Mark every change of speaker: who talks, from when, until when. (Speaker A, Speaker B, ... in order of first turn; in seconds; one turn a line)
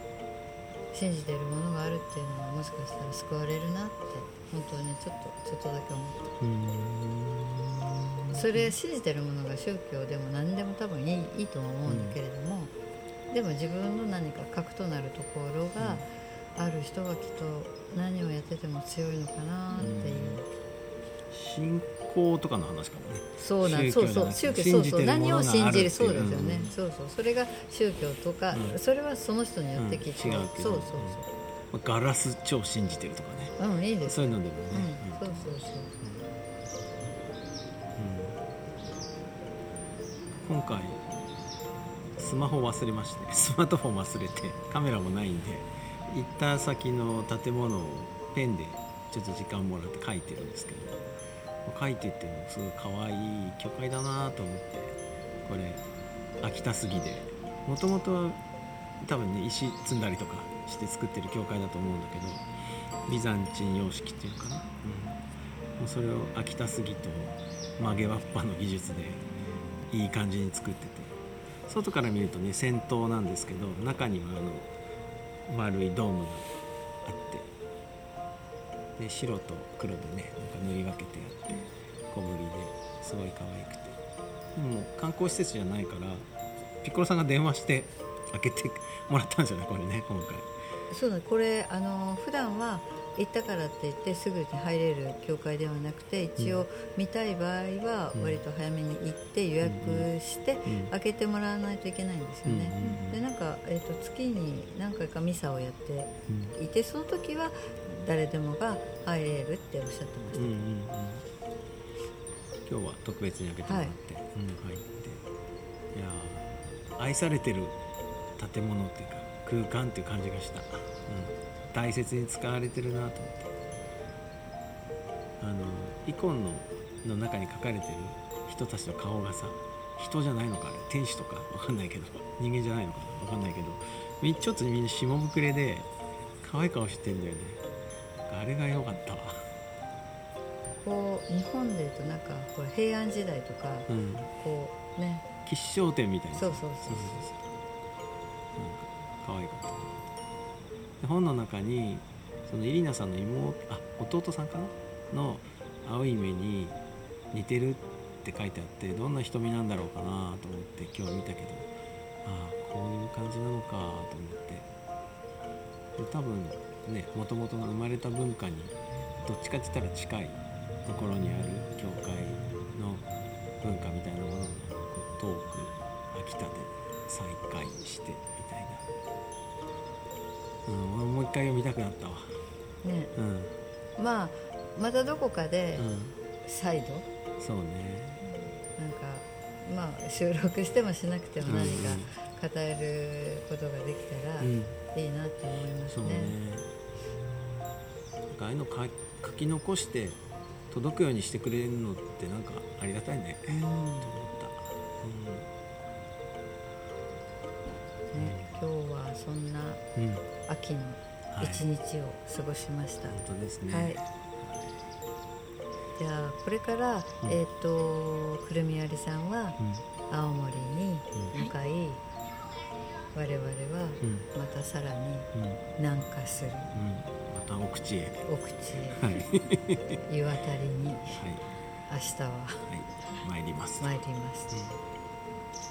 Speaker A: 0.9-6.2
Speaker B: 6.4-8.8
Speaker A: 8.3-12.7
Speaker B: 11.9-12.2
Speaker A: 13.3-20.5
Speaker B: 15.8-16.1
Speaker B: 19.8-20.4
Speaker B: 21.3-26.7
Speaker A: 23.4-31.3
Speaker B: 28.5-28.8
Speaker B: 29.8-31.2
Speaker B: 31.7-35.4
Speaker A: 33.6-35.9
Speaker B: 36.0-36.3
Speaker B: 38.0-38.4
Speaker B: 40.4-41.0
Speaker B: 42.2-51.0
Speaker B: 51.6-55.8
Speaker B: 56.4-58.4
Speaker B: 59.0-62.5
Speaker B: 63.1-65.2
Speaker B: 65.8-69.2
Speaker B: 69.9-74.7
Speaker B: 75.5-76.5
Speaker B: 77.0-77.5
Speaker B: 79.0-84.0
Speaker B: 84.5-86.3
Speaker B: 86.8-90.5
Speaker A: 90.9-110.6
Speaker B: 96.4-96.6
Speaker B: 98.1-98.4
Speaker B: 99.6-100.1
Speaker B: 100.6-100.9
Speaker B: 102.5-103.2
Speaker B: 106.3-106.6
Speaker B: 110.3-111.2
Speaker B: 112.7-115.2
Speaker A: 113.6-114.0
Speaker B: 115.9-117.8
Speaker B: 118.4-123.5
Speaker B: 125.4-135.9
Speaker B: 136.4-137.6
Speaker B: 138.3-139.4
Speaker A: 140.8-145.2
Speaker B: 143.9-144.3
Speaker B: 145.4-147.3
Speaker A: 146.3-147.3
Speaker B: 148.6-150.1
Speaker B: 151.0-156.8
Speaker B: 157.3-161.7
Speaker B: 162.2-164.7
Speaker B: 166.0-173.1
Speaker B: 173.6-178.8
Speaker B: 180.7-182.4
Speaker A: 182.8-183.1
Speaker B: 183.2-183.5
Speaker A: 184.0-185.9
Speaker B: 185.8-186.2
Speaker A: 186.4-187.1
Speaker B: 187.4-188.2
Speaker A: 188.7-196.4
Speaker B: 191.5-192.1
Speaker B: 194.4-194.8
Speaker B: 195.9-196.7
Speaker B: 198.3-200.2
Speaker B: 200.7-205.5
Speaker A: 203.5-204.1
Speaker A: 208.1-209.8
Speaker B: 208.1-208.6
Speaker B: 210.0-210.2
Speaker A: 210.5-214.0
Speaker B: 211.3-211.6
Speaker B: 213.1-214.7
Speaker A: 215.9-222.0
Speaker B: 219.6-219.8
Speaker A: 223.1-226.7
Speaker B: 225.3-225.6
Speaker B: 226.7-228.3
Speaker A: 228.2-229.1
Speaker B: 229.0-229.9
Speaker A: 230.1-231.2
Speaker B: 231.2-231.4
Speaker A: 231.9-232.7
Speaker B: 232.7-233.9
Speaker A: 233.8-234.5
Speaker B: 234.5-234.8